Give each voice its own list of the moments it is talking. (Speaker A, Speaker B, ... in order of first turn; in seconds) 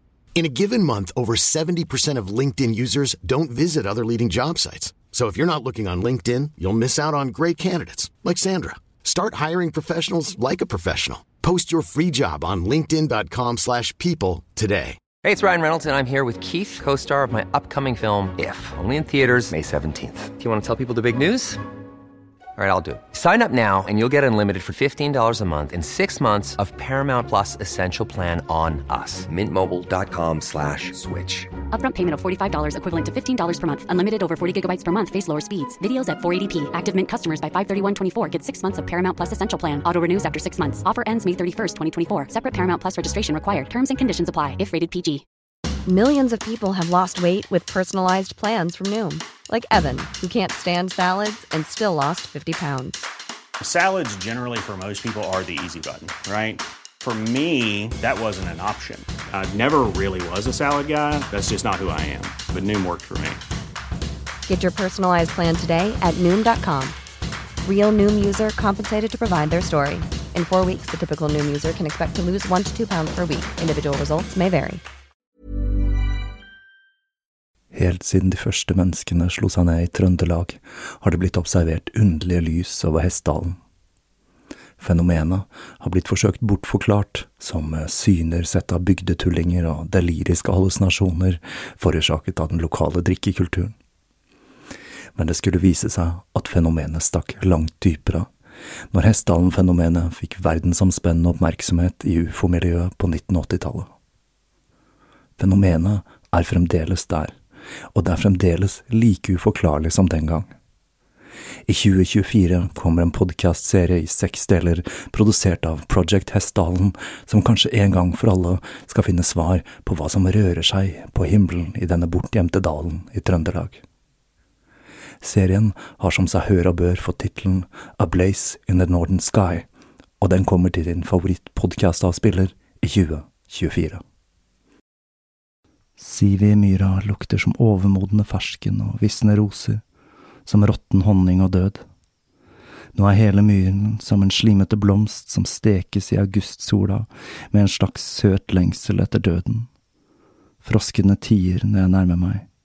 Speaker A: 0.3-15.0
Speaker B: 15.2-21.6, 22.6-31.5
Speaker C: 31.7-45.2
Speaker D: 45.9-53.1, 64.5-67.0, 67.6-74.8
Speaker E: 53.6-63.4
Speaker F: 77.7-83.5, 84.8-93.7, 95.2-98.3, 98.9-103.9, 105.4-107.3, 107.9-110.5, 111.7-123.8, 125.2-129.7, 130.2-134.0, 136.0-139.8, 140.4-141.8, 142.9-149.7, 150.6-152.4